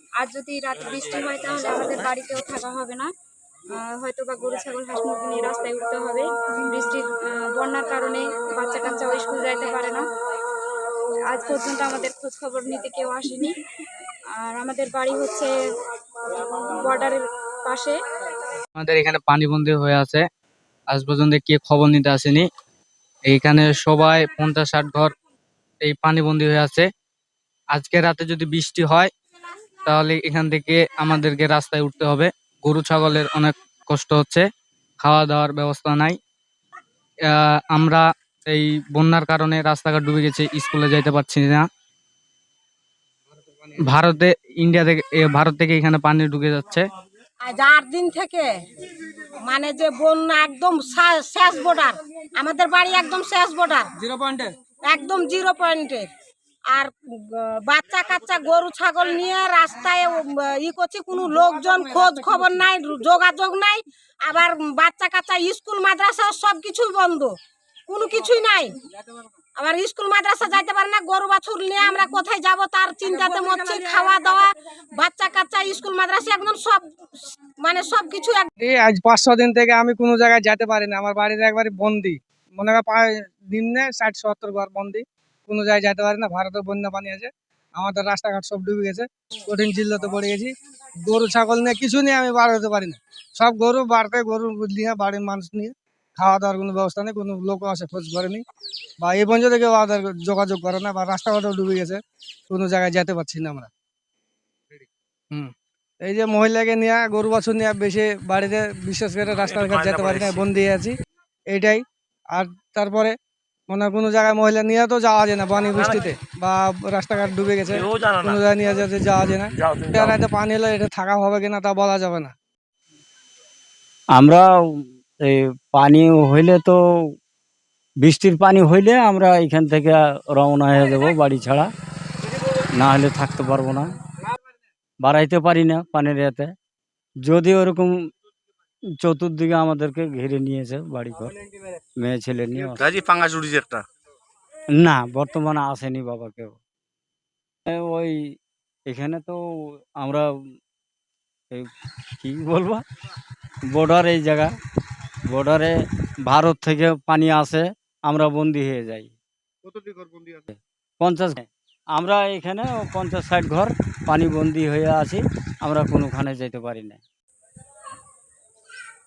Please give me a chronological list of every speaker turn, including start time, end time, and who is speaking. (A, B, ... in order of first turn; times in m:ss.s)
0:00.2-0:03.1 A
0:03.7-0:10.0 A
0:11.3-0:13.6 A
0:14.4-0:15.5 A
0:16.4-0:18.0 A
0:18.8-0:20.2 B
0:20.9-0:22.5 B
0:23.2-0:25.1 B
0:25.8-0:26.9 B
0:27.7-0:29.1 B
0:29.9-0:34.4 B
0:35.0-0:36.2 B
0:37.3-0:41.7 B
0:43.8-0:46.9 B
0:47.4-0:48.5 C
0:49.2-0:53.9 C
0:54.0-0:54.5 D
0:54.8-0:56.1 C
0:56.7-1:07.3 C
1:07.9-1:08.7 C
1:09.6-1:16.8 C
1:17.6-1:18.5 C
1:18.6-1:30.5 D
1:31.1-1:38.4 D
1:39.0-1:43.7 D
1:44.7-1:51.0 D
1:49.4-1:50.5 E
1:51.5-1:53.2 D
1:53.7-2:02.3 D
1:55.8-1:56.0 E
1:57.7-1:58.5 E
1:59.5-2:00.2 E
2:04.1-2:07.2 F
2:08.0-2:11.7 F
2:12.8-2:13.9 F
2:15.0-2:16.5 F
2:17.2-2:18.1 F
2:19.0-2:21.3 F
2:22.0-2:22.9 F
2:22.8-2:23.8 E
2:24.7-2:26.6 F
2:27.7-2:30.6 F
2:31.5-2:32.8 F
2:33.7-2:34.5 F
2:35.3-2:39.2 F
2:40.4-2:47.0 F